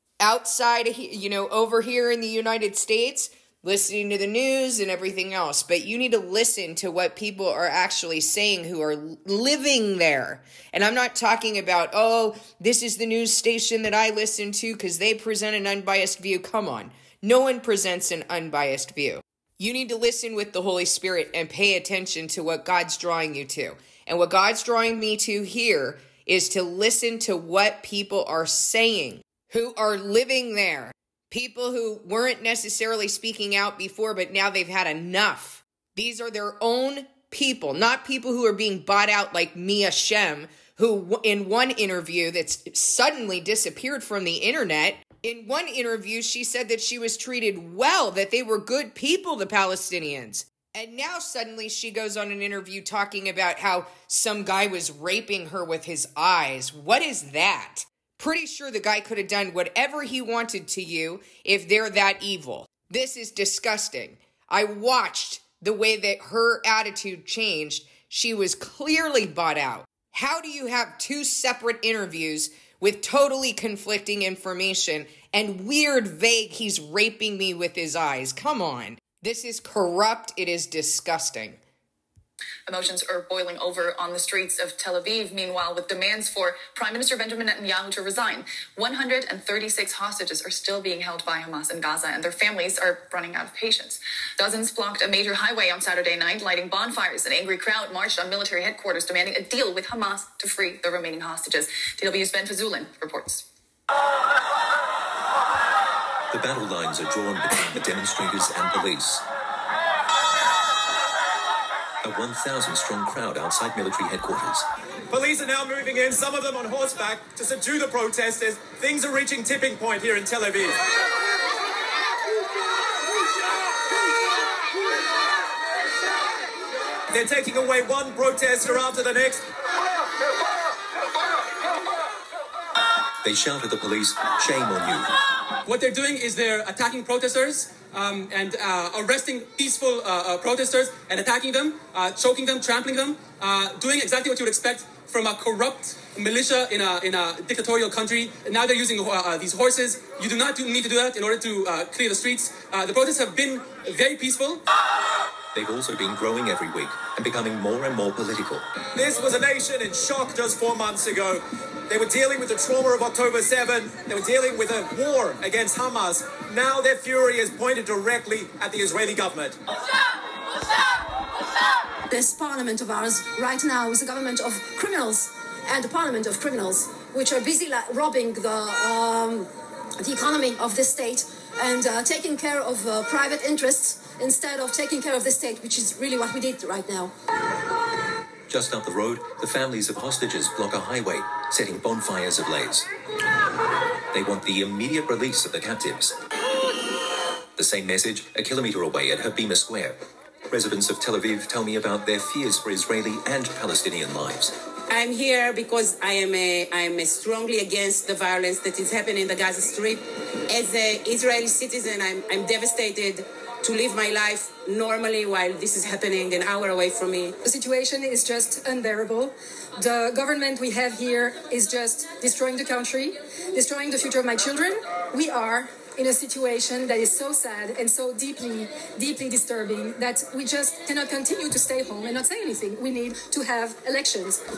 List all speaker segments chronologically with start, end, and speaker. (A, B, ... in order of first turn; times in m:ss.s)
0:00.2-1:21.6 A
1:22.7-1:43.4 B
1:46.3-1:49.2 C
1:52.0-1:54.6 C
1:55.1-2:00.8 D
2:07.1-2:09.4 D
2:13.2-2:15.1 C
2:15.6-2:34.6 E
2:35.5-2:38.7 C
2:38.9-2:49.6 D
2:52.1-3:07.1 F
3:08.5-3:12.9 C
3:14.1-3:16.2 C
3:17.6-3:20.0 C
3:20.5-3:24.5 C
3:24.9-3:37.3 G
3:37.4-3:54.4 H